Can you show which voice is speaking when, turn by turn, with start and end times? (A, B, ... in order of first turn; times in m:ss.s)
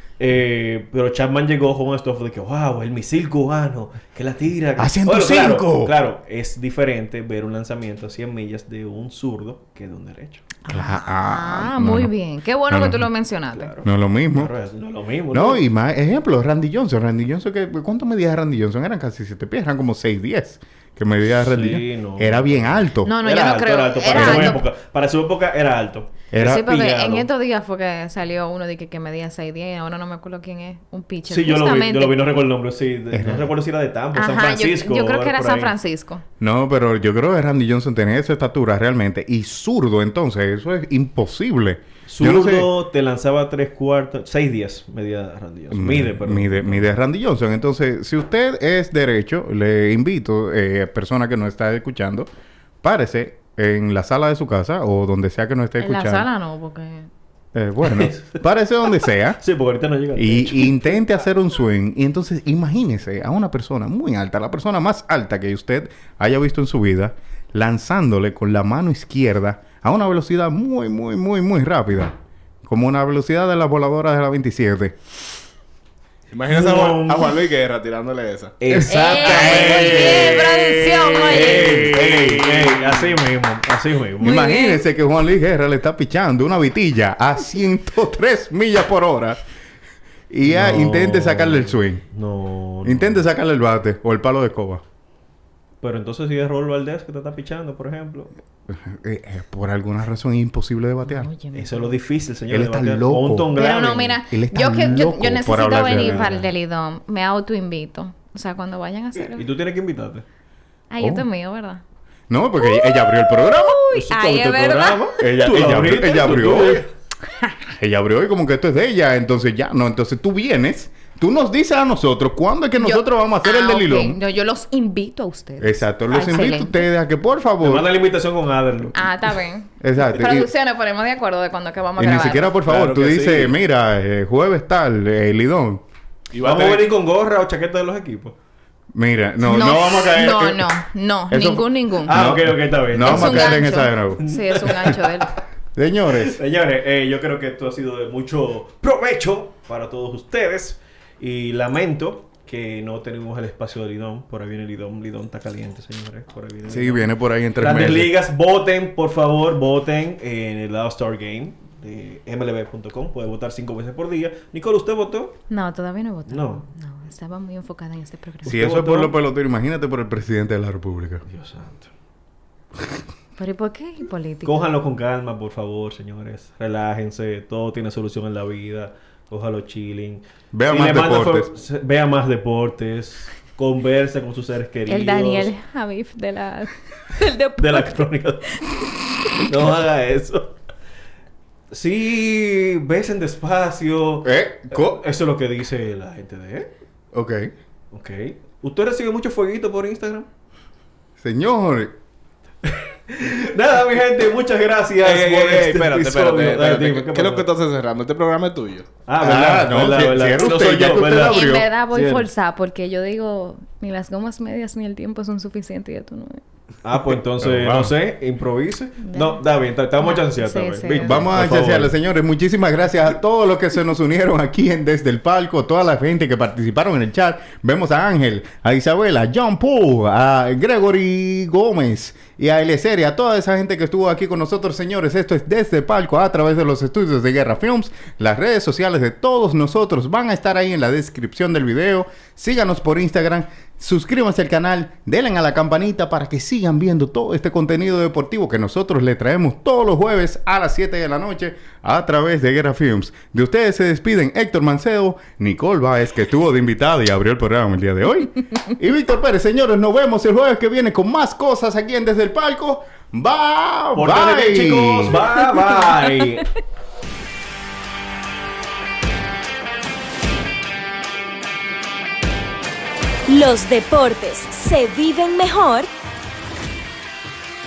0:00.2-0:10.5 A
0:04.8-0:05.9 B
0:10.7-0:13.8 C
0:10.7-0:12.1 B
0:12.7-0:13.1 B
0:13.5-0:15.6 A
0:13.8-0:14.5 B
0:15.3-0:23.1 B
0:21.4-0:27.3 A
0:23.0-0:24.6 C
0:24.1-0:24.6 B
0:26.3-0:26.6 B
0:26.4-0:32.3 C
0:31.3-0:35.7 A
0:33.1-0:33.5 B
0:34.1-0:36.2 C
0:36.4-0:42.7 B
0:42.1-0:46.9 A
0:45.7-0:52.3 B
0:52.8-0:56.3 B
0:55.8-0:57.1 C
0:57.5-0:59.4 B
0:57.8-0:58.4 A
0:59.4-1:01.0 A
1:00.2-1:15.0 B
1:16.3-1:18.6 D
1:16.5-1:17.3 A
1:18.6-1:20.5 A
1:18.9-1:21.9 C
1:19.3-1:19.9 D
1:19.6-1:22.3 B
1:21.2-1:24.4 A
1:22.1-1:23.1 D
1:24.2-1:29.4 B
1:24.2-1:24.8 C
1:30.3-1:32.0 B
1:30.5-1:33.2 A
1:32.8-1:34.8 B
1:35.8-1:38.3 A
1:38.7-1:41.3 B
1:41.0-1:42.0 C
1:41.5-1:44.2 A
1:42.5-1:43.6 B
1:43.5-1:49.5 C
1:44.3-1:46.4 B
1:45.9-1:46.4 A
1:49.3-1:50.2 A
1:50.9-1:51.8 C
1:52.3-1:53.8 B
1:52.6-1:55.1 C
1:53.9-1:56.9 A
1:55.2-1:56.8 B
1:57.8-2:04.2 B
2:02.8-2:06.9 C
2:05.6-2:07.9 B
2:07.6-2:09.2 A
2:08.9-2:12.6 C
2:09.8-2:10.5 B
2:12.0-2:15.8 B
2:12.7-2:13.4 A
2:12.7-2:13.5 D
2:16.3-2:16.9 D
2:16.4-2:18.4 A
2:18.9-2:20.6 B
2:19.4-2:22.2 C
2:19.7-2:20.6 A
2:21.3-2:24.2 B
2:22.0-2:25.1 A
2:23.0-2:25.4 C
2:25.8-2:26.4 B
2:26.1-2:45.4 A
2:36.7-2:38.1 B
2:45.5-2:48.6 C
2:46.3-2:46.6 A
2:48.4-2:49.1 A
2:48.4-2:51.2 B
2:51.3-2:51.9 A
2:53.4-2:54.6 C
2:54.4-3:05.5 A
3:00.5-3:01.5 B
3:04.9-3:07.9 C
3:07.6-3:08.8 A
3:09.4-3:10.6 A
3:11.7-3:16.7 A
3:14.2-3:15.0 B
3:17.1-3:17.5 B
3:17.9-3:20.3 A
3:21.2-3:22.0 B
3:22.6-3:27.5 A
3:25.0-3:29.0 D
3:29.1-3:32.3 A
3:29.2-3:31.7 B
3:31.0-3:36.4 C
3:36.8-3:41.9 A
3:37.4-3:37.9 B
3:39.0-3:39.4 C
3:40.0-3:41.2 C
3:40.9-4:25.2 B
4:24.0-4:26.5 A
4:33.3-4:35.9 E